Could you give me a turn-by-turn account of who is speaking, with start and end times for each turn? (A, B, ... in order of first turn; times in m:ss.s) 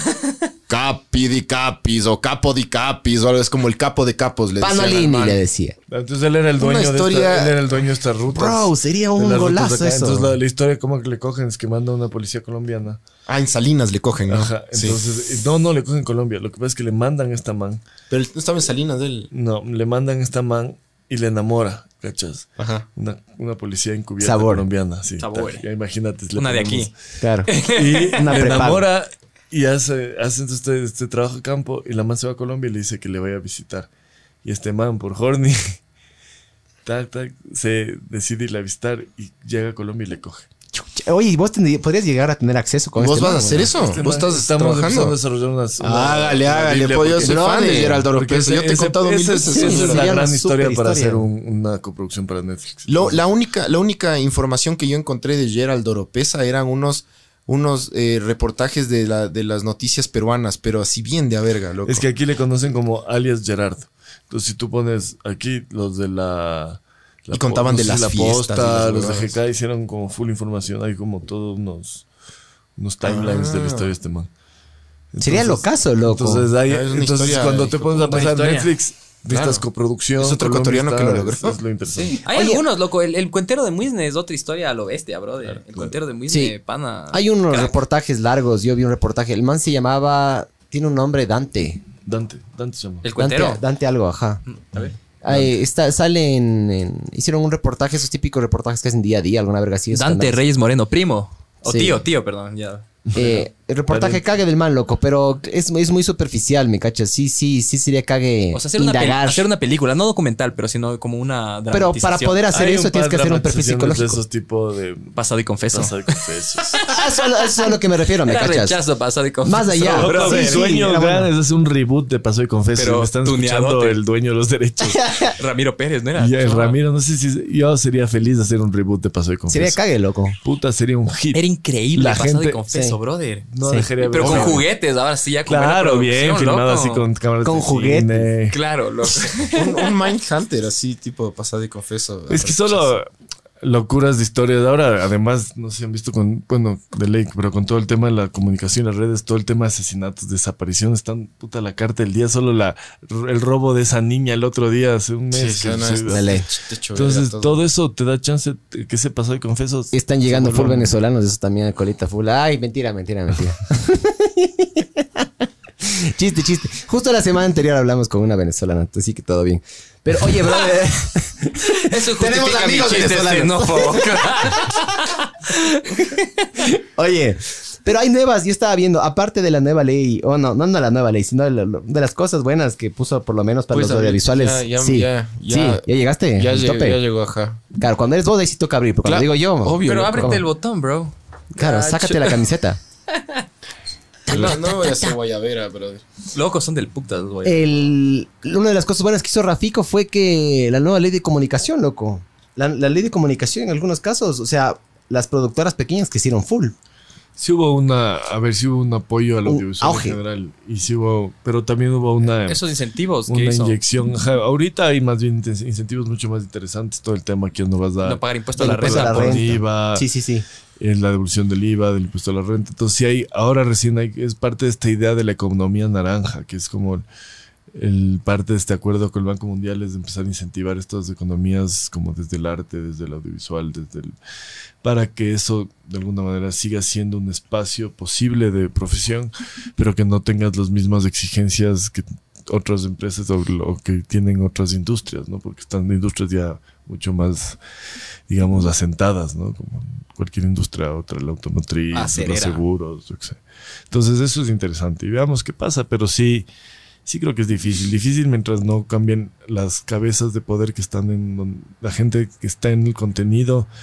0:00.7-0:05.4 A
0:04.6-0:05.8 B
0:05.9-0:13.0 C
0:06.6-0:07.6 A
0:08.3-0:10.3 B
0:13.3-0:15.0 A
0:14.3-0:17.8 C
0:18.1-0:19.3 A
0:19.3-0:26.9 C
0:22.6-0:22.8 A
0:24.2-0:24.6 B
0:25.2-0:25.6 D
0:26.4-0:26.9 D
0:27.2-0:27.5 B
0:27.5-0:28.6 D
0:27.6-0:33.9 C
0:28.1-0:28.8 B
0:34.4-0:35.8 C
0:36.8-0:40.5 C
0:40.7-0:43.7 B
0:43.0-0:45.2 A
0:43.7-0:53.2 C
0:45.8-0:50.2 A
0:47.2-0:48.1 B
0:49.4-0:51.2 B
0:52.9-1:02.0 A
1:01.8-1:12.1 C
1:07.3-1:09.4 A
1:12.8-1:14.3 C
1:13.0-1:13.9 A
1:15.1-1:22.2 C
1:15.2-1:16.5 B
1:16.6-1:18.3 A
1:18.0-1:18.7 D
1:19.3-1:19.6 A
1:20.2-1:21.6 A
1:21.9-1:27.7 D
1:22.3-1:22.6 B
1:25.4-1:26.0 C
1:26.3-1:26.5 B
1:27.1-1:31.8 B
1:32.0-1:33.1 C
1:33.0-1:33.6 D
1:33.2-1:34.4 B
1:34.5-1:35.0 D
1:35.2-1:40.4 B
1:35.3-1:35.6 C
1:39.9-1:43.0 D
1:41.6-1:42.0 B
1:43.1-1:49.4 B
1:43.1-1:44.2 C
1:48.5-1:52.5 D
1:51.7-1:54.2 B
1:52.5-1:56.8 C
1:55.2-1:56.9 D
1:56.8-1:58.8 B
1:57.6-2:00.7 D
1:59.4-2:01.3 B
1:59.8-2:05.0 C
2:02.7-2:04.0 D
2:04.8-2:05.3 B
2:05.3-2:06.8 D
2:06.2-2:09.8 C
2:09.5-2:10.4 B
2:10.4-2:12.6 C
2:11.3-2:13.5 D
2:12.7-2:13.0 B
2:13.5-2:14.7 C
2:13.6-2:13.9 B
2:14.0-2:17.0 D
2:14.2-2:14.6 A
2:15.4-2:18.6 C
2:17.4-2:18.3 B
2:18.5-2:19.9 D
2:19.5-2:22.9 A
2:22.3-2:23.1 C
2:23.6-2:40.9 C
2:35.3-2:37.6 A
2:36.1-2:36.5 B
2:39.9-2:45.2 B
2:45.8-2:54.9 B
2:51.7-2:56.4 D
2:56.6-3:07.0 B
3:03.7-3:07.6 A
3:07.7-3:10.4 B
3:09.0-3:10.3 A
3:09.8-3:12.5 D
3:11.5-3:12.8 B
3:13.1-3:13.4 D
3:14.3-3:16.0 A
3:14.3-3:14.6 D
3:16.3-3:17.9 D
3:17.4-3:26.7 B
3:27.4-3:32.6 C
3:29.4-3:30.2 B
3:32.2-3:33.8 D
3:33.3-3:40.0 C
3:38.0-3:39.5 D
3:38.6-3:40.4 B
3:40.8-3:47.0 C
3:47.7-3:54.1 C
3:54.8-4:07.6 C
4:08.3-4:16.5 C
4:11.9-4:12.6 B
4:12.0-4:12.6 D
4:17.0-4:23.7 C